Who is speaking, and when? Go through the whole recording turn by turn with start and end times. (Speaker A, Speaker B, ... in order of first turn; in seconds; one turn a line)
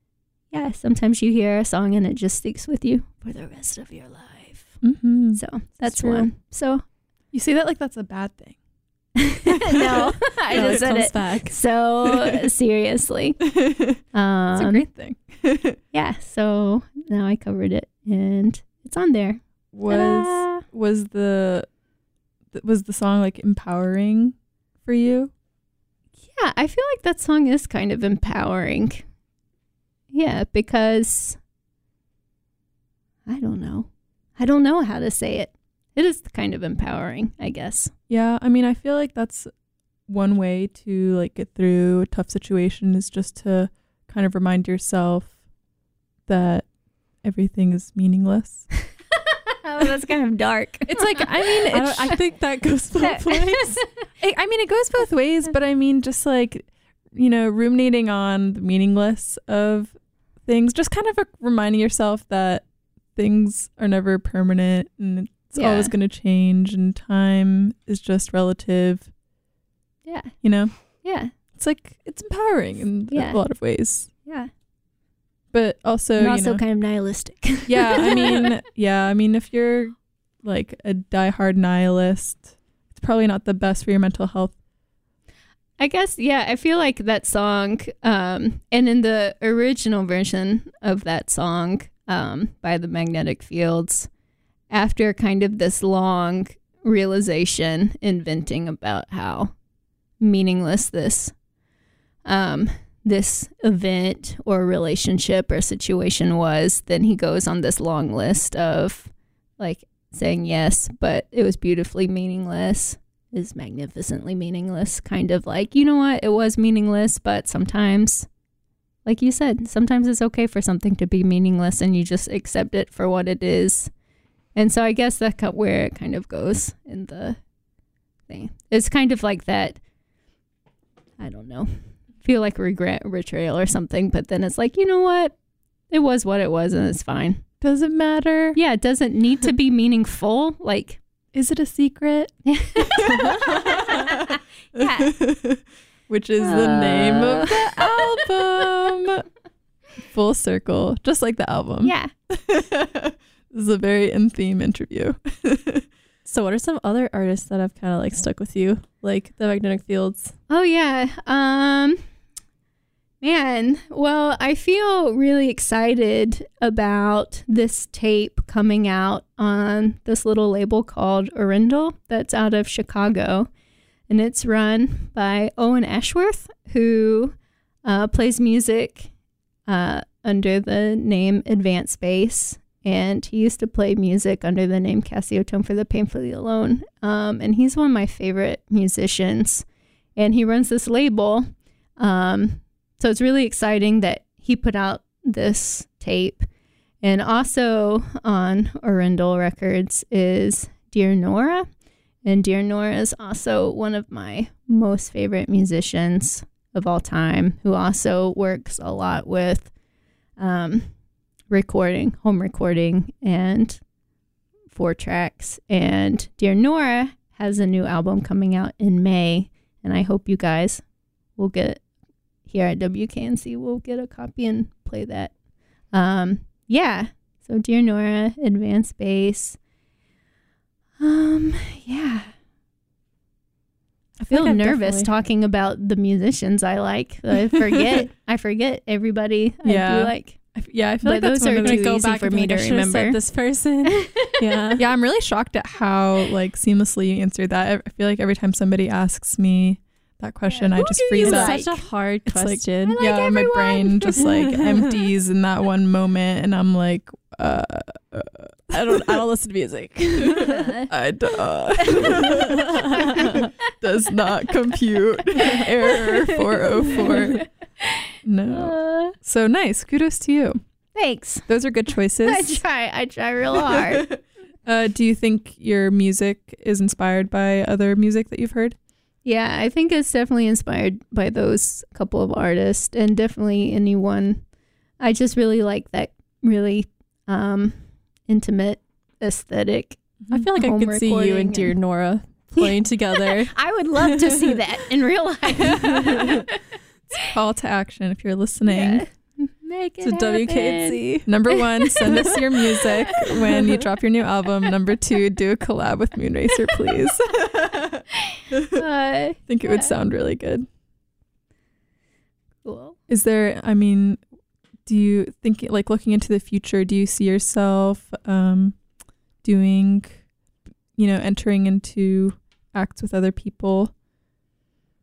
Speaker A: 0.5-4.8
Speaker B: 4.8-6.3
Speaker A: 5.3-6.8
Speaker B: 7.3-8.6
Speaker A: 9.2-13.4
Speaker B: 9.8-10.8
Speaker C: 10.5-11.6
Speaker B: 13.6-14.0
Speaker A: 14.1-14.8
Speaker B: 14.5-15.8
Speaker A: 15.9-20.6
Speaker B: 19.7-21.7
Speaker B: 22.5-25.3
Speaker A: 26.3-29.1
Speaker A: 30.1-31.4
Speaker A: 33.2-37.9
Speaker B: 38.1-39.5
Speaker B: 40.1-45.4
Speaker B: 46.3-46.7
Speaker B: 47.2-48.7
Speaker A: 49.6-51.6
Speaker B: 50.9-52.2
Speaker C: 51.7-53.8
Speaker A: 53.0-53.9
Speaker B: 54.2-69.1
Speaker A: 65.5-65.9
Speaker A: 70.0-71.3
Speaker B: 70.4-70.7
Speaker B: 71.3-74.1
Speaker A: 73.1-73.4
Speaker A: 74.2-74.5
Speaker B: 75.5-76.6
Speaker A: 76.2-78.5
Speaker B: 77.7-84.5
Speaker A: 85.8-94.1
Speaker A: 94.7-99.5
Speaker A: 100.2-101.3
Speaker A: 102.2-118.3
Speaker A: 119.0-123.9
Speaker A: 124.5-127.4
Speaker A: 128.3-129.8
Speaker A: 131.2-135.4
Speaker A: 135.9-137.4
Speaker B: 137.6-138.6
Speaker A: 138.5-141.0
Speaker B: 141.3-149.2
Speaker A: 142.5-145.1
Speaker A: 146.4-148.0
Speaker B: 150.1-155.8
Speaker A: 151.8-152.1
Speaker C: 156.2-160.4
Speaker A: 160.5-162.0
Speaker A: 163.2-173.5
Speaker A: 174.1-179.1
Speaker A: 179.7-196.5
Speaker A: 197.0-201.7
Speaker A: 202.2-209.7
Speaker A: 210.4-210.9
Speaker A: 211.5-213.8
Speaker A: 214.7-220.8
Speaker A: 221.3-221.8
Speaker A: 222.4-225.3
Speaker A: 225.9-229.6
Speaker A: 231.0-232.3
Speaker C: 234.2-235.1
Speaker A: 234.3-240.4
Speaker B: 237.7-238.1
Speaker B: 239.6-242.0
Speaker A: 241.0-243.2
Speaker C: 241.5-244.8
Speaker A: 244.0-244.3
Speaker B: 244.8-251.7
Speaker A: 250.5-251.8
Speaker C: 251.1-253.0
Speaker B: 252.2-259.2
Speaker A: 252.8-254.2
Speaker C: 254.2-254.9
Speaker C: 258.7-260.6
Speaker B: 260.4-262.6
Speaker A: 260.4-260.9
Speaker A: 261.8-262.1
Speaker C: 262.7-263.3
Speaker A: 263.0-263.4
Speaker B: 263.2-267.4
Speaker A: 265.3-267.9
Speaker B: 268.2-270.6
Speaker A: 268.5-269.1
Speaker A: 270.9-271.5
Speaker B: 271.4-272.6
Speaker A: 272.2-274.1
Speaker B: 273.7-278.8
Speaker A: 279.2-284.4
Speaker A: 285.0-290.0
Speaker C: 290.3-294.5
Speaker A: 290.5-291.8
Speaker A: 292.5-296.6
Speaker C: 295.7-296.3
Speaker B: 297.1-299.1
Speaker A: 298.7-303.4
Speaker C: 300.0-301.3
Speaker B: 301.2-308.8
Speaker A: 308.7-309.9
Speaker B: 309.4-310.7
Speaker A: 312.6-313.0
Speaker B: 313.1-314.2
Speaker B: 314.9-318.8
Speaker B: 319.4-320.2
Speaker B: 320.9-323.9